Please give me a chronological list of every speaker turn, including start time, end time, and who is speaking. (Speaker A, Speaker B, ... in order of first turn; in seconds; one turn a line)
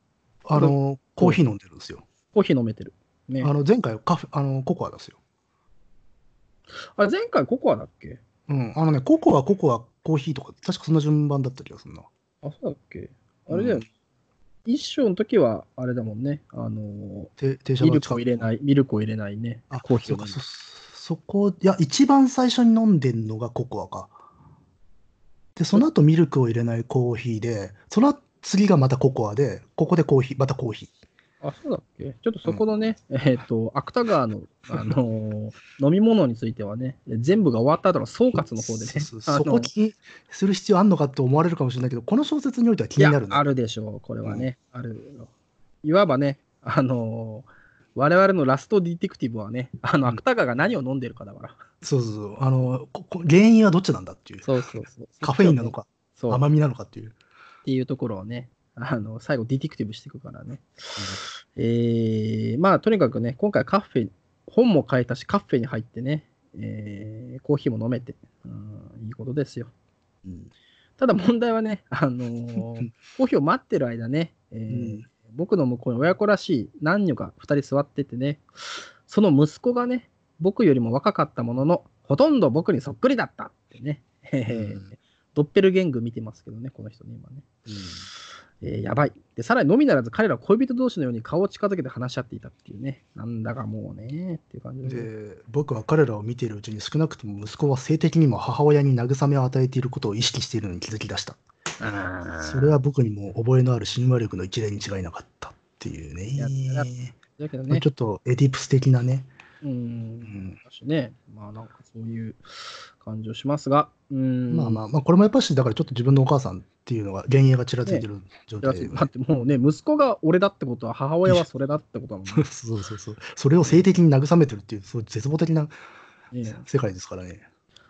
Speaker A: 0.4-2.0
Speaker B: 0.5-1.4
Speaker B: 2.3-3.5
Speaker A: 3.4-5.2
Speaker B: 7.0-8.2
Speaker A: 8.5-12.1
Speaker B: 12.4-13.8
Speaker A: 13.5-13.8
Speaker B: 14.7-20.4
Speaker A: 17.4-18.4
Speaker A: 19.7-24.1
Speaker A: 25.6-30.9
Speaker B: 31.4-39.7
Speaker A: 38.6-43.4
Speaker B: 43.0-45.3
Speaker B: 45.8-51.6
Speaker A: 51.8-54.5
Speaker B: 54.4-56.4
Speaker A: 55.2-57.1
Speaker B: 57.6-69.7
Speaker A: 70.2-70.5
Speaker B: 71.0-87.5
Speaker A: 72.6-72.8
Speaker A: 74.7-75.0
Speaker A: 84.5-84.9
Speaker A: 87.7-88.1
Speaker B: 88.6-95.1
Speaker A: 94.8-101.4
Speaker B: 101.8-102.8
Speaker A: 102.4-107.1
Speaker B: 106.4-107.8
Speaker A: 107.7-109.3
Speaker B: 109.6-114.8
Speaker A: 110.2-110.6
Speaker A: 114.5-119.1
Speaker B: 118.6-122.4
Speaker A: 122.3-125.7
Speaker B: 126.3-126.6
Speaker A: 126.6-127.4